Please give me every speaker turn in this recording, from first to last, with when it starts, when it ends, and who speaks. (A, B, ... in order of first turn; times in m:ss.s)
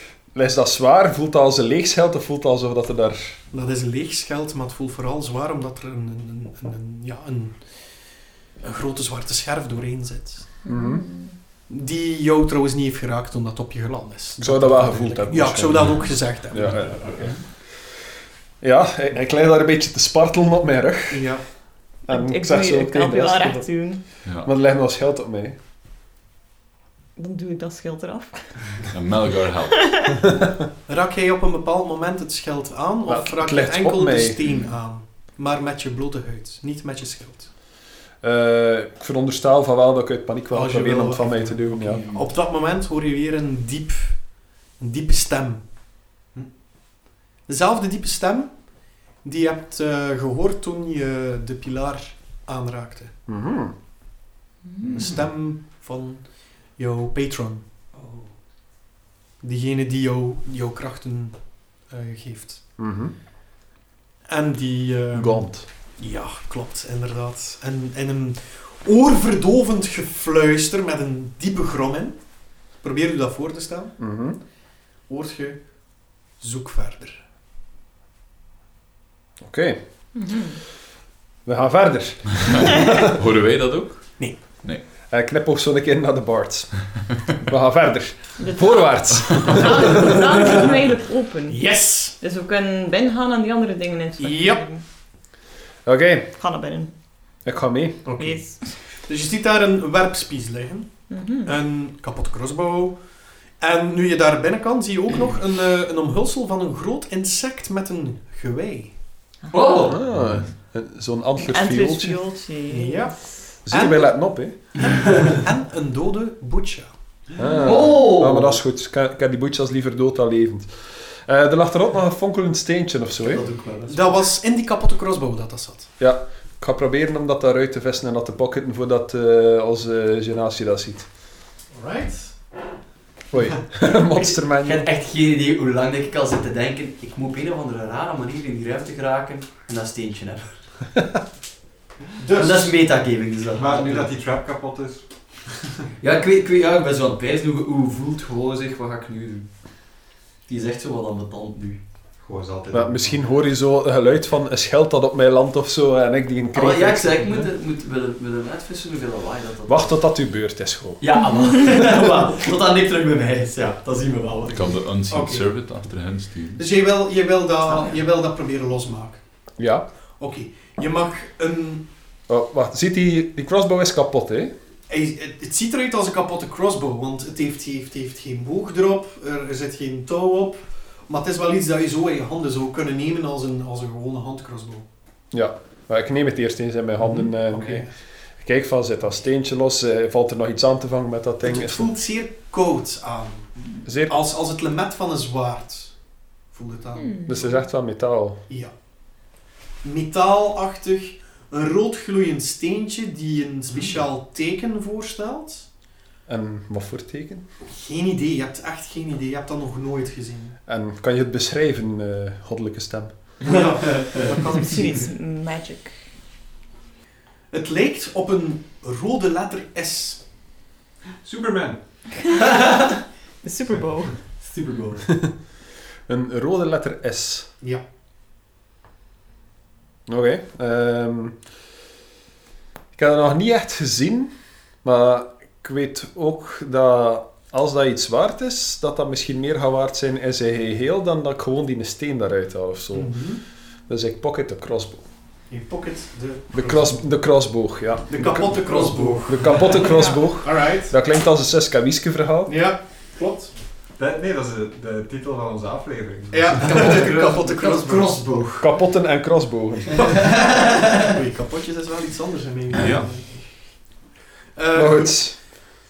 0:00.3-0:03.4 A
0:03.5-0:10.5 B
0:10.6-0:11.4 C
0:10.7-0:11.0 A
0:11.7-0:17.3 B
0:14.4-0:17.5 A
0:18.6-0:21.4 A
0:21.1-0:21.4 B
0:22.0-0:24.0 C
0:22.1-0:25.6 A
0:27.2-0:28.6 C
0:28.9-0:30.1 D
0:29.8-0:30.1 C
0:30.9-0:37.5 B
0:33.1-0:34.4 A
0:38.2-0:42.1 A
0:40.5-0:45.6 B
0:47.5-0:53.2 B
0:53.3-0:53.8 A
0:54.7-0:55.2 C
0:54.9-0:57.7 B
0:59.4-1:02.6 B
1:02.8-1:03.1 A
1:04.3-1:12.2 B
1:05.1-1:05.7 A
1:12.8-1:14.0 B
1:14.0-1:14.4 A
1:15.1-1:15.8 B
1:16.4-1:17.2 B
1:19.4-1:19.8 A
1:20.1-1:20.6 C
1:21.4-1:23.1 A
1:23.1-1:24.8 D
1:25.1-1:30.2 A
1:28.4-1:34.8 C
1:31.5-1:32.2 B
1:34.2-1:34.6 B
1:35.8-1:36.3 A
1:36.4-1:36.9 C
1:37.4-1:38.1 A
1:38.0-1:43.0 B
1:38.2-1:38.8 C
1:41.1-1:41.6 C
1:43.6-1:49.0 B
1:49.4-1:49.9 C
1:49.5-1:50.0 E
1:49.8-1:52.2 A
1:50.1-1:50.5 D
1:51.4-1:53.6 C
1:52.7-1:56.9 B
1:53.7-1:54.6 A
1:57.4-2:03.4 A
1:57.6-1:58.6 E
2:03.2-2:04.2 E
2:03.9-2:05.9 B
2:06.0-2:11.1 A
2:11.7-2:12.4 B
2:13.3-2:14.9 A
2:14.5-2:20.6 E
2:22.2-2:22.7 B
2:22.3-2:24.1 E
2:23.5-2:25.7 F
2:26.0-2:29.5 E
2:30.5-2:31.8 E
2:32.2-2:33.2 F
2:32.7-2:37.5 A
2:36.5-2:40.0 E
2:39.7-2:41.0 A
2:41.0-2:44.8 E
2:41.2-2:41.6 C
2:44.5-2:46.6 D
2:45.1-2:45.4 B
2:46.6-2:49.2 B
2:49.6-2:49.9 A
2:50.2-2:51.8 B
2:52.3-2:54.5 A
2:54.9-3:04.9 B
3:05.3-3:07.9 A
3:07.1-3:07.9 B
3:08.4-3:11.9 A
3:11.4-3:16.0 B
3:13.8-3:14.2 A
3:16.5-3:17.2 B
3:17.0-3:17.6 C
3:17.3-3:18.4 A
3:19.8-3:25.7 B
3:26.3-3:27.4 A
3:27.7-3:30.6 B
3:30.7-3:33.2 A
3:33.4-3:35.1 B
3:33.5-3:34.3 E
3:34.5-3:36.0 C
3:37.5-3:40.2 B
3:41.2-3:41.8 F
3:43.4-3:44.2 C
3:44.4-3:45.0 E
3:46.1-3:47.5 A
3:50.1-3:51.4 A
3:53.0-3:54.3 A
3:54.8-4:03.3 A
4:02.9-4:03.4 B
4:03.9-4:05.0 A
4:05.5-4:07.1 B
4:06.5-4:08.6 A
4:08.1-4:09.8 B
4:08.2-4:09.9 E
4:09.3-4:12.6 A
4:09.9-4:10.3 C
4:10.4-4:10.9 B
4:12.5-4:13.5 B
4:14.0-4:17.0 F
4:16.3-4:18.6 B
4:16.6-4:18.6 E
4:18.6-4:20.2 A
4:20.0-4:21.1 E
4:20.1-4:20.5 B
4:21.0-4:23.9 B
4:22.8-4:23.1 D
4:24.6-4:25.3 B
4:24.7-4:25.4 A